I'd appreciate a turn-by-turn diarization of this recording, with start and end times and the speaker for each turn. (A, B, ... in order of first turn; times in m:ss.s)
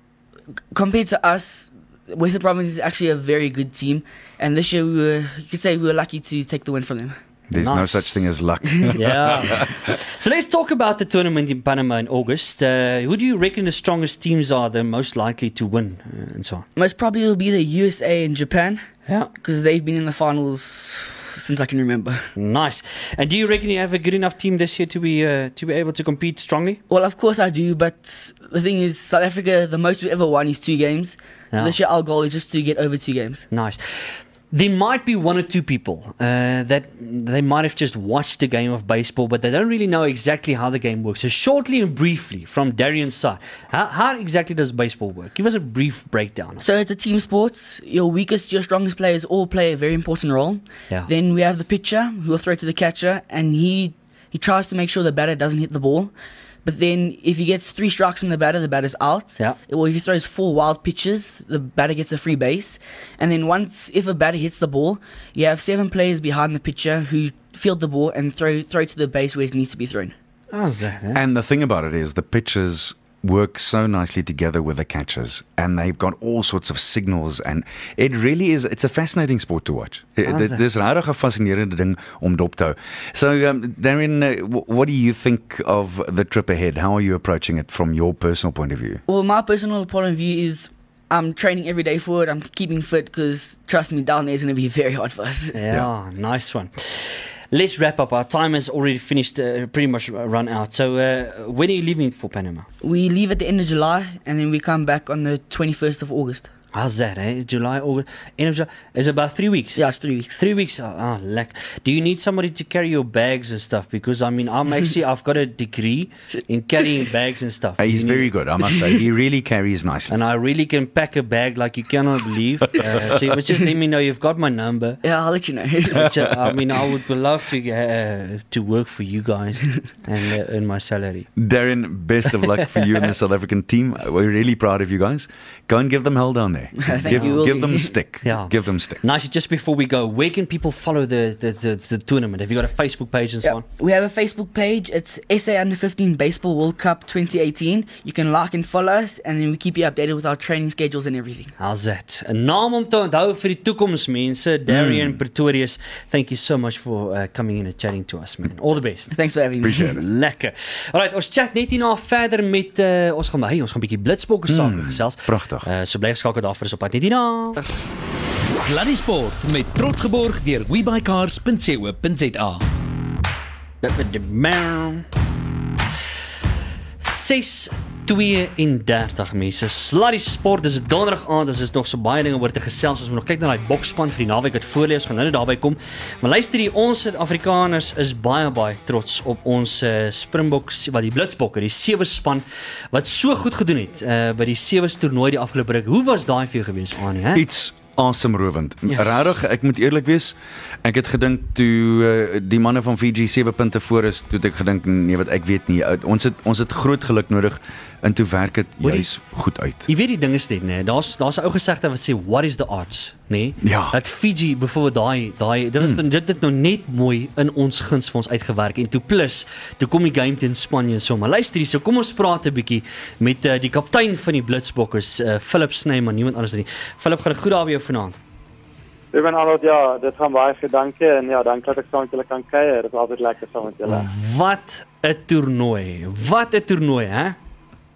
0:00.7-0:07.2 A
0:07.5-0:09.8 B
0:07.6-0:08.3 C
0:08.9-0:16.7 C
0:16.8-0:18.8 A
0:19.4-0:22.3 A
0:22.4-0:26.8 C
0:26.9-0:33.5 A
0:33.5-0:46.6 C
0:46.6-0:56.1 A
0:56.6-1:10.1 A
1:10.5-1:11.2 C
1:11.1-1:29.0 B
1:20.2-1:20.6 C
1:29.1-1:35.6 A
1:35.5-1:42.7 C
1:42.8-1:46.5 A
1:46.7-1:58.3 C
1:49.8-1:50.4 A
1:57.8-2:00.2 B
2:00.1-2:05.0 C
2:05.0-2:06.1 A
2:05.9-2:11.3 C
2:11.4-2:19.0 B
2:16.8-2:17.9 A
2:17.1-2:17.4 C
2:18.2-2:23.6 C
2:23.4-2:31.5 A
2:31.6-2:39.1 C
2:34.7-2:35.2 B
2:39.1-2:40.0 A
2:39.6-2:40.0 B
2:39.9-2:47.7 C
2:44.5-2:45.7 B
2:48.4-2:52.6 D
2:53.8-2:55.1 C
2:57.0-3:17.4 C
3:17.3-3:29.9 B
3:18.9-3:19.2 C
3:28.8-3:29.1 C
3:29.9-3:48.2 C
3:33.6-3:34.0 B
3:49.1-3:54.1 E
3:53.9-3:57.4 C